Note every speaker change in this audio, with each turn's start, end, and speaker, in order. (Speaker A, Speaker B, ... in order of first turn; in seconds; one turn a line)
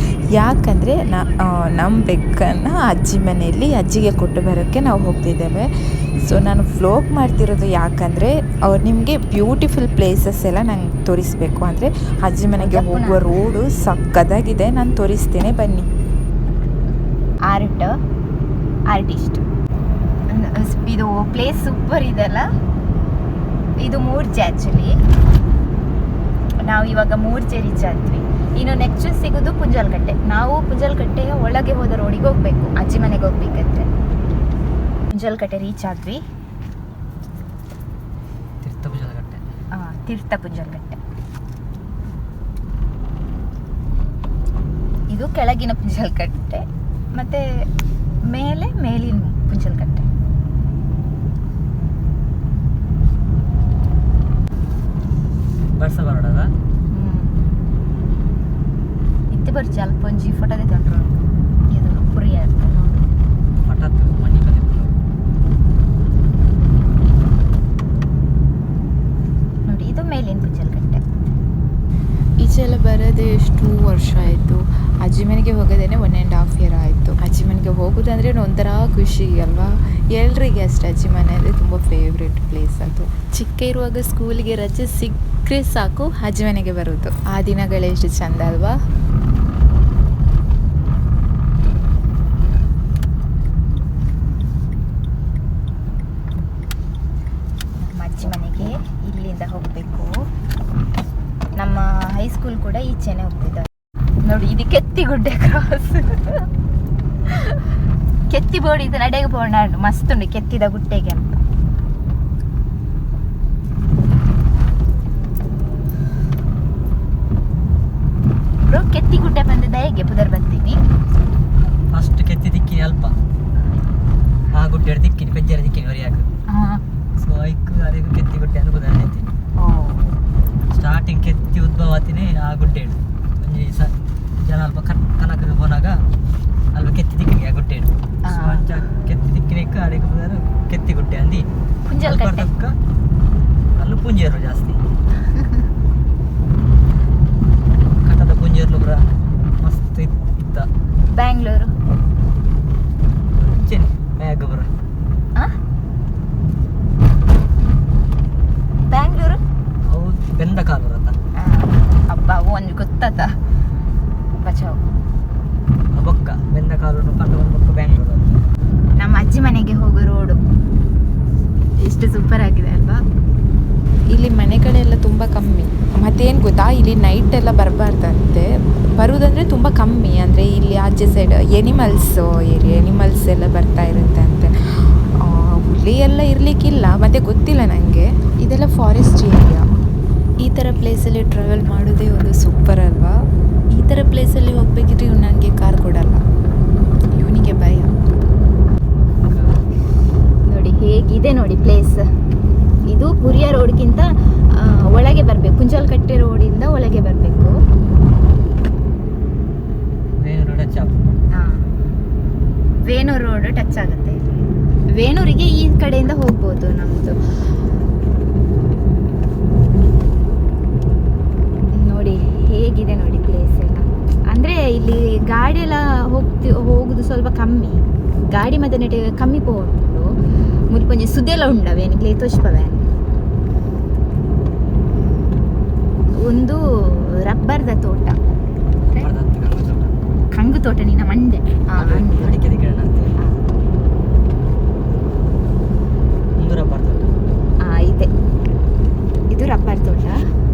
Speaker A: 0.3-5.7
Speaker A: 6.2-15.9
Speaker B: 12.6-13.3
Speaker B: 17.5-17.9
Speaker B: 18.9-19.4
Speaker B: 20.3-22.5
Speaker B: 23.8-24.9
Speaker B: 26.6-33.9
Speaker B: 35.1-36.2
Speaker C: 38.6-39.4
Speaker B: 39.8-41.0
Speaker B: 45.1-47.5
Speaker B: 48.3-50.0
Speaker C: 55.8-56.5
Speaker B: 56.9-57.4
Speaker B: 59.3-63.1
Speaker C: 63.6-65.0
Speaker B: 69.7-71.0
Speaker A: 72.4-88.8
Speaker B: 97.8-100.2
Speaker B: 101.5-103.7
Speaker B: 104.2-106.5
Speaker B: 107.3-107.6
Speaker B: 108.3-111.4
Speaker B: 118.7-120.8
Speaker C: 121.9-123.1
Speaker C: 124.5-126.3
Speaker B: 126.5-126.8
Speaker C: 127.2-129.3
Speaker B: 129.6-130.1
Speaker C: 130.7-133.9
Speaker C: 134.4-136.0
Speaker C: 136.7-141.4
Speaker B: 138.2-138.7
Speaker B: 141.8-142.5
Speaker C: 142.0-142.7
Speaker C: 143.8-144.8
Speaker B: 145.3-145.6
Speaker C: 148.0-149.0
Speaker C: 149.6-150.7
Speaker B: 151.1-151.7
Speaker C: 153.3-154.7
Speaker B: 158.9-159.4
Speaker C: 159.9-161.1
Speaker B: 161.4-163.3
Speaker B: 164.4-164.8
Speaker C: 165.9-168.4
Speaker B: 168.9-170.4
Speaker B: 171.8-173.0
Speaker A: 174.1-189.7
Speaker A: 190.4-193.2
Speaker A: 193.7-196.2
Speaker A: 197.0-197.9
Speaker C: 199.2-199.6
Speaker B: 200.4-202.1
Speaker B: 202.9-207.6
Speaker C: 210.2-211.0
Speaker B: 211.3-211.7
Speaker B: 212.8-214.2
Speaker B: 214.9-217.2
Speaker B: 221.7-230.1
Speaker B: 230.7-232.8
Speaker B: 236.2-238.2
Speaker C: 238.9-239.9
Speaker B: 240.3-242.3
Speaker C: 241.7-243.2
Speaker C: 246.4-247.1
Speaker B: 247.6-248.1
Speaker B: 249.3-250.2